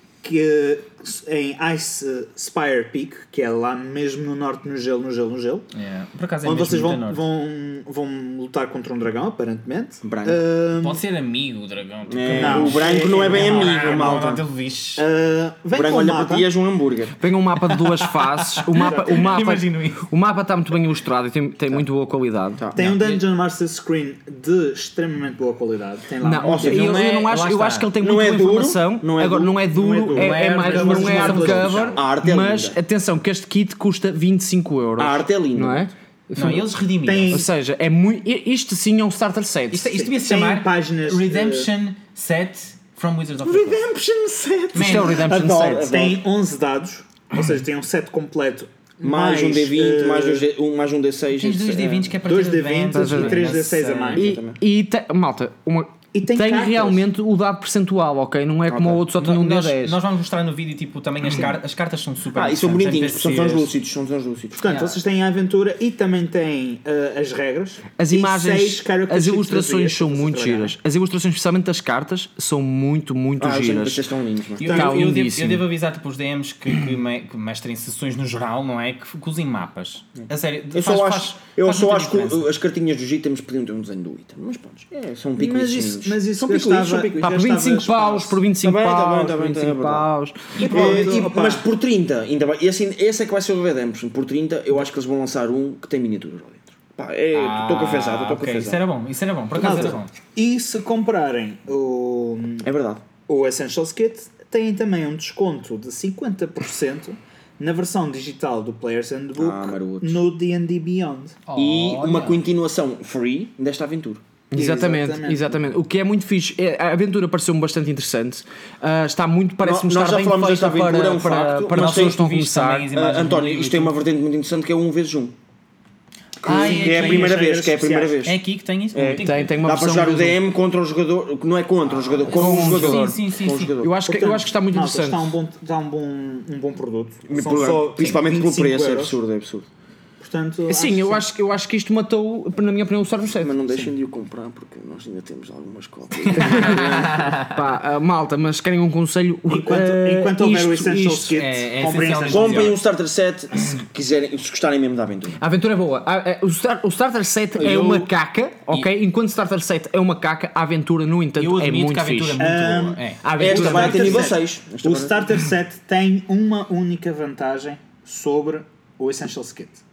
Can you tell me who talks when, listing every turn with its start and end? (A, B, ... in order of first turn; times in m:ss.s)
0:00.2-0:05.7 A
0:05.7-0:07.2 B
0:06.4-0:11.0 A
0:10.0-0:10.4 C
0:10.8-0:15.0 B
0:12.1-0:14.4 C
0:12.3-0:14.4 A
0:15.0-0:16.5 A
0:15.7-0:17.2 C
0:17.2-0:22.7 D
0:17.7-0:20.0 B
0:22.7-0:27.2 A
0:22.8-0:23.2 B
0:26.2-0:36.6 D
0:26.4-0:27.0 C
0:26.7-0:27.9 B
0:28.0-0:29.6 C
0:29.7-0:32.0 A
0:30.1-0:32.0 B
0:31.2-0:32.8 C
0:35.0-0:35.9 C
0:36.4-0:37.4 B
0:37.0-0:37.5 A
0:37.3-0:39.9 D
0:39.7-0:43.8 B
0:39.9-0:41.7 A
0:43.4-0:46.2 C
0:44.7-0:45.2 B
0:44.7-0:46.0 D
0:45.1-0:50.4 A
0:49.0-0:52.2 C
0:51.4-0:54.3 B
0:52.3-0:54.3 A
0:52.9-0:53.6 D
0:54.1-0:54.6 C
0:54.2-1:00.0 D
0:56.1-0:57.1 A
0:58.7-0:59.0 C
0:59.2-1:03.7 B
1:02.3-1:04.7 C
1:04.6-1:10.8 A
1:04.7-1:05.0 B
1:08.0-1:14.0 D
1:13.4-1:15.1 C
1:14.6-1:22.4 B
1:14.6-1:15.6 D
1:20.7-1:27.3 C
1:25.4-1:28.4 A
1:27.2-1:30.6 D
1:28.6-1:38.8 C
1:30.6-1:31.1 B
1:30.6-1:31.7 A
1:37.3-1:40.1 B
1:39.6-1:40.0 C
1:39.6-1:42.7 A
1:42.6-1:43.0 C
1:43.3-1:51.4 A
1:49.4-1:50.2 C
1:51.5-1:52.4 B
1:51.6-1:54.2 C
1:54.5-2:02.9 D
1:54.5-1:55.5 A
1:59.6-2:02.2 C
2:01.7-2:04.0 B
2:02.9-2:05.4 C
2:06.4-2:07.4 B
2:06.4-2:08.4 C
2:06.5-2:08.2 A
2:08.2-2:09.5 B
2:08.9-2:13.9 C
2:09.2-2:10.4 D
2:11.9-2:13.7 B
2:12.3-2:13.2 D
2:13.8-2:15.3 D
2:14.0-2:19.2 A
2:17.3-2:19.7 C
2:20.2-2:21.2 A
2:20.7-2:23.9 D
2:23.4-2:27.4 C
2:26.2-2:26.8 B
2:26.4-2:31.4 D
2:29.5-2:32.7 A
2:31.4-2:32.8 B
2:32.3-2:35.4 C
2:35.4-2:42.4 D
2:37.6-2:38.1 C
2:41.4-2:43.2 B
2:42.4-2:49.8 A
2:43.2-2:44.3 D
2:43.4-2:45.4 C